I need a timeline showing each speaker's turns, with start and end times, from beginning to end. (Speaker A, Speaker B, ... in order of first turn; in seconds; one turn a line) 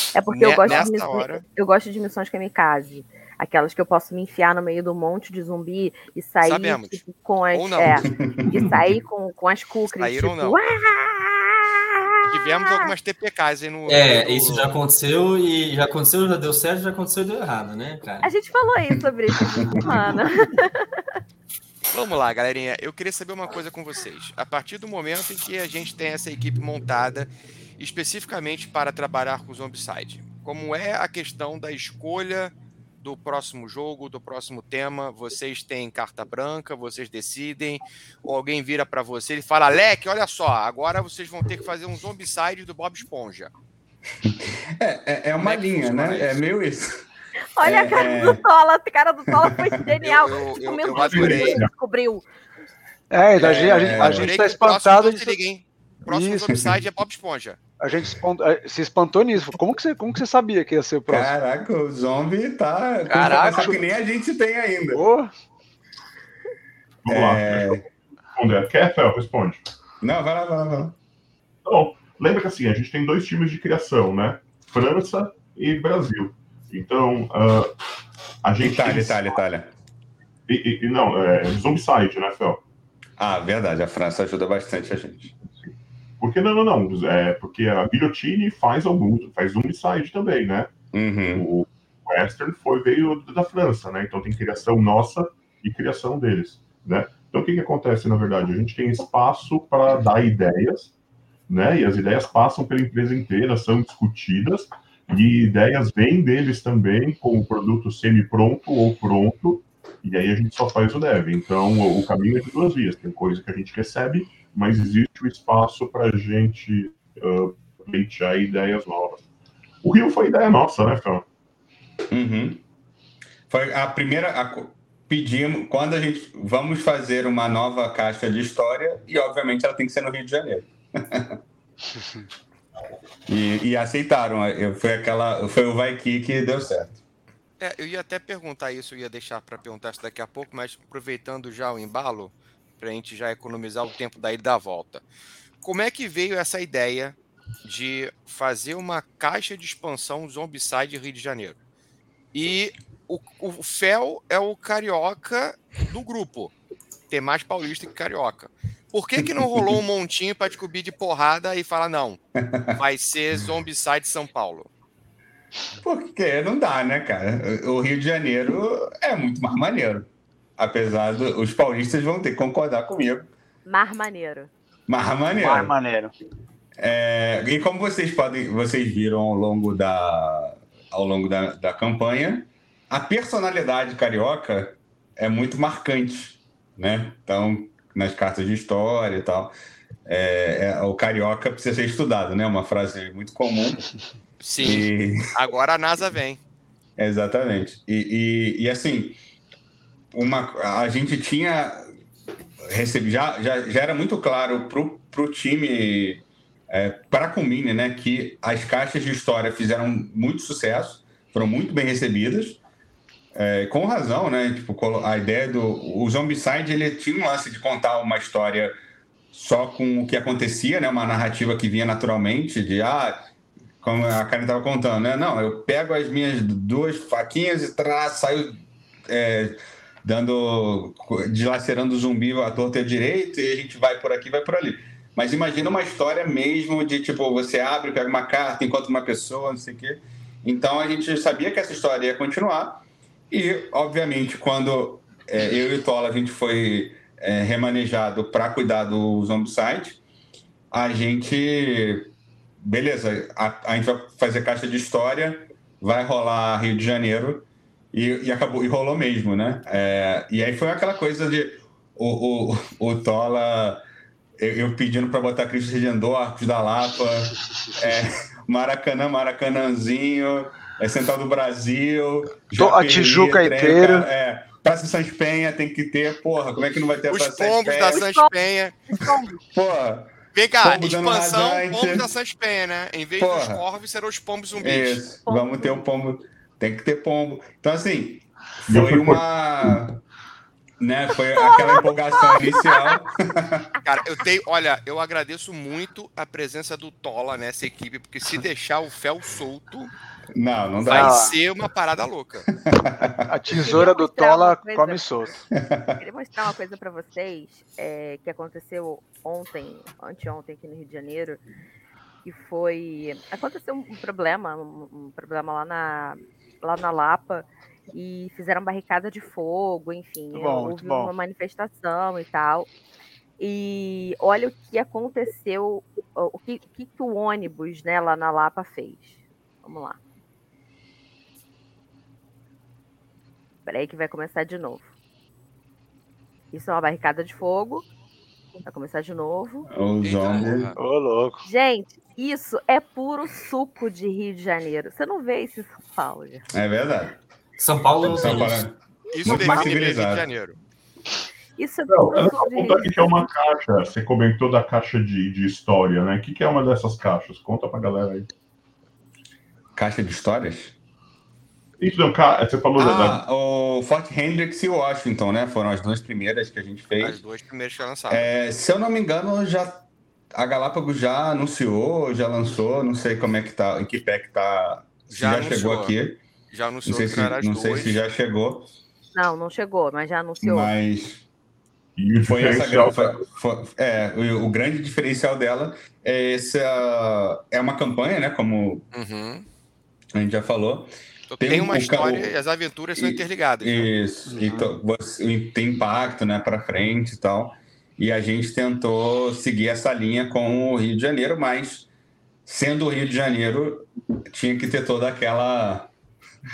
Speaker A: 0.1-12.9
Speaker B: 0.3-1.4
Speaker B: 6.4-8.1
Speaker B: 10.0-10.6
Speaker B: 12.3-14.8
Speaker C: 13.9-18.3
Speaker A: 18.2-20.9
Speaker B: 21.9-43.5
Speaker D: 44.2-47.1
Speaker B: 45.4-46.4
Speaker A: 47.6-52.3
Speaker D: 47.6-48.4
Speaker B: 50.0-51.7
Speaker E: 50.9-51.7
Speaker F: 53.1-55.4
Speaker B: 53.4-57.6
Speaker D: 53.5-54.3
Speaker F: 56.1-56.5
Speaker F: 57.8-61.3
Speaker D: 61.1-65.0
Speaker B: 63.1-63.8
Speaker F: 63.1-63.8
Speaker F: 64.9-65.3
Speaker E: 67.0-69.6
Speaker D: 67.1-67.8
Speaker D: 70.0-71.0
Speaker E: 71.7-77.7
Speaker E: 78.4-79.2
Speaker D: 78.6-79.7
Speaker E: 80.5-82.6
Speaker D: 83.2-85.3
Speaker E: 86.2-90.7
Speaker D: 90.9-91.5
Speaker E: 91.3-100.9
Speaker E: 101.5-119.2
Speaker E: 119.8-121.2
Speaker D: 122.1-122.6
Speaker D: 123.5-131.4
Speaker D: 133.3-137.0
Speaker B: 137.6-145.0
Speaker B: 145.6-151.6
Speaker B: 152.3-156.5
Speaker B: 157.1-162.2
Speaker D: 162.4-162.8
Speaker B: 162.7-164.7
Speaker D: 165.8-173.3
Speaker A: 173.7-174.5
Speaker D: 174.9-175.7
Speaker F: 175.3-176.1
Speaker D: 176.8-189.5
Speaker D: 190.1-193.8
Speaker B: 194.4-196.4
Speaker D: 194.6-195.3
Speaker D: 197.0-199.2
Speaker D: 200.1-201.9
Speaker D: 202.6-212.6
Speaker D: 213.3-218.7
Speaker D: 219.3-223.2
Speaker D: 223.8-250.0
Speaker D: 250.7-263.8
Speaker D: 264.4-278.1
Speaker F: 272.6-274.1
Speaker B: 277.1-278.8
Speaker A: 277.7-278.3
Speaker A: 278.9-279.4
Speaker D: 279.5-282.1
Speaker B: 280.3-285.0
Speaker D: 283.2-283.6
Speaker D: 284.6-290.0
Speaker A: 285.2-285.8
Speaker E: 288.7-289.8
Speaker D: 290.8-293.7
Speaker A: 291.4-291.8
Speaker B: 293.8-299.9
Speaker D: 300.3-301.2
Speaker B: 300.9-302.5
Speaker F: 300.9-301.4
Speaker D: 302.6-303.3
Speaker F: 303.1-305.4
Speaker A: 303.6-305.1
Speaker D: 305.6-306.0
Speaker A: 306.0-311.4
Speaker A: 312.2-322.7
Speaker F: 320.3-321.1
Speaker A: 323.4-330.0
Speaker A: 333.6-334.9
Speaker A: 336.5-337.9
Speaker A: 338.6-339.7
Speaker D: 339.7-340.7
Speaker B: 340.0-340.8
Speaker F: 340.8-341.4
Speaker A: 341.4-346.5
Speaker D: 346.5-347.2
Speaker C: 347.6-348.6
Speaker D: 348.0-350.3
Speaker B: 349.1-350.6
Speaker A: 349.2-349.5
Speaker A: 351.6-353.3
Speaker E: 351.9-358.3
Speaker D: 359.8-360.7
Speaker E: 361.8-363.2
Speaker D: 362.8-367.2
Speaker B: 367.0-368.3
Speaker D: 368.1-376.2
Speaker B: 375.1-375.9
Speaker B: 376.5-378.0
Speaker D: 376.9-378.7
Speaker A: 379.1-380.7
Speaker D: 380.4-381.2
Speaker E: 382.0-383.2
Speaker D: 382.2-388.9
Speaker B: 388.9-389.5
Speaker D: 390.1-392.3
Speaker B: 391.3-393.9
Speaker D: 393.0-401.9
Speaker F: 394.3-394.7
Speaker D: 402.5-405.9